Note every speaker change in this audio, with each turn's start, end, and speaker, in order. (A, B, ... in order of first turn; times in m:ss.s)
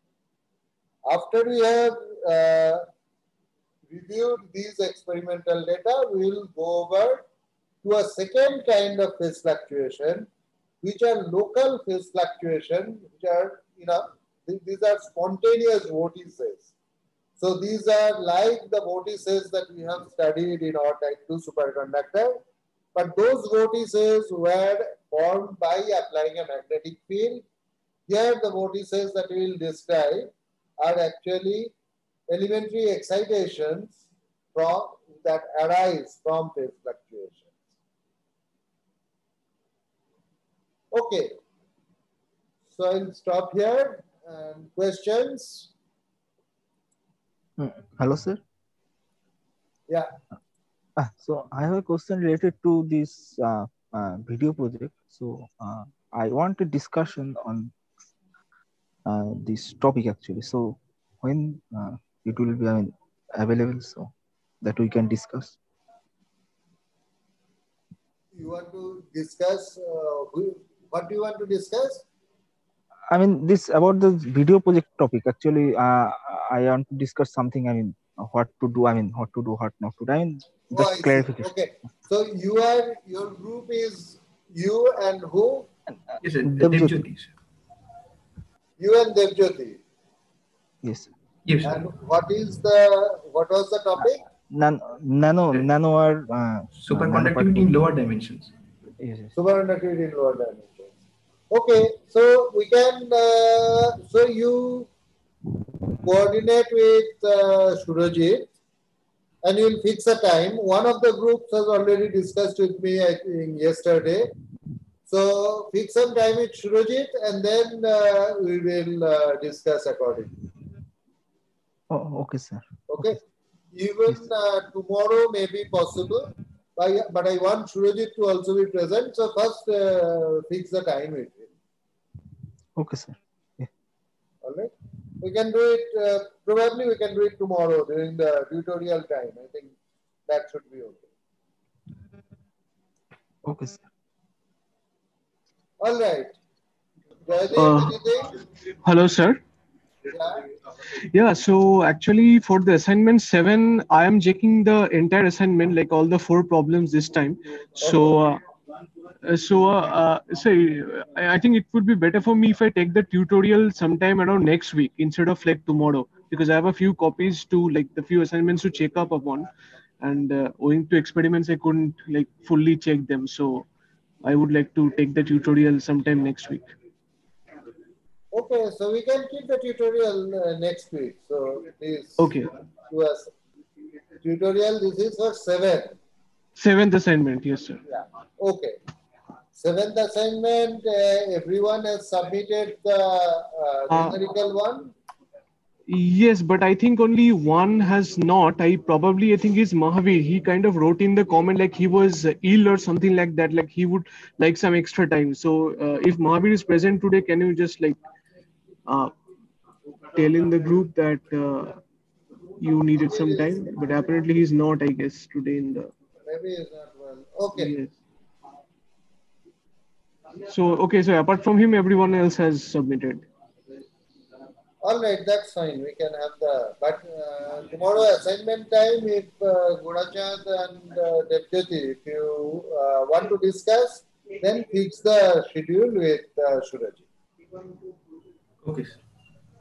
0:01.1-0:02.9 A
0:03.9-0:07.2 A
0:07.8-0:10.3 A
0:10.8-0:16.7 A
0:17.4-0:22.4 A
0:23.0-0:27.4 A
0:28.1-0:31.7 A
0:32.3-0:34.0 A
0:34.5-0:37.5 A
0:40.9-0:41.3 A
0:42.7-0:45.7 A
0:47.6-0:48.4 B
0:51.0-0:57.7 B
0:59.0-1:04.1 B
1:04.6-1:05.6 B
1:08.3-1:12.0 A
1:13.1-1:21.5 B
1:20.7-1:25.7 A
1:26.2-1:27.3 C
1:26.5-1:27.0 B
1:28.8-1:29.8 A
1:30.8-1:31.1 B
1:31.5-1:31.8 C
1:31.6-1:34.2 A
1:34.0-1:37.7 B
1:36.8-1:38.5 C
1:39.0-1:39.3 B
1:39.3-1:41.0 A
1:41.5-1:44.9 A
1:46.0-1:48.6 A
1:49.4-1:54.3 A
1:55.1-2:00.3 A
2:01.9-2:03.2 B
2:02.9-2:03.2 A
2:03.7-2:11.5 A
2:12.8-2:13.7 B
2:14.4-2:19.7 A
2:20.3-2:21.1 A
2:23.4-2:23.8 B
2:25.8-2:26.4 A
2:27.3-2:28.3 A
2:27.6-2:28.0 D
2:28.8-2:29.4 D
2:30.0-2:30.4 A
2:31.0-2:38.4 D
2:39.2-2:49.5 D
2:50.0-2:53.7 D
2:54.2-2:56.7 D
2:58.3-3:02.3 A
3:02.2-3:02.5 D
3:02.9-3:03.3 A
3:04.2-3:06.0 A
3:06.6-3:07.8 D
3:07.9-3:08.8 A
3:09.6-3:14.9 A
3:13.9-3:14.2 D
3:15.9-3:28.0 D
3:28.9-3:29.1 D
3:30.1-3:31.8 D
3:32.6-3:35.9 D
3:33.0-3:33.7 A
3:36.3-3:37.7 A
3:37.5-3:37.9 D
3:40.5-3:43.3 D
3:44.8-3:57.0 A
3:58.6-3:58.9 C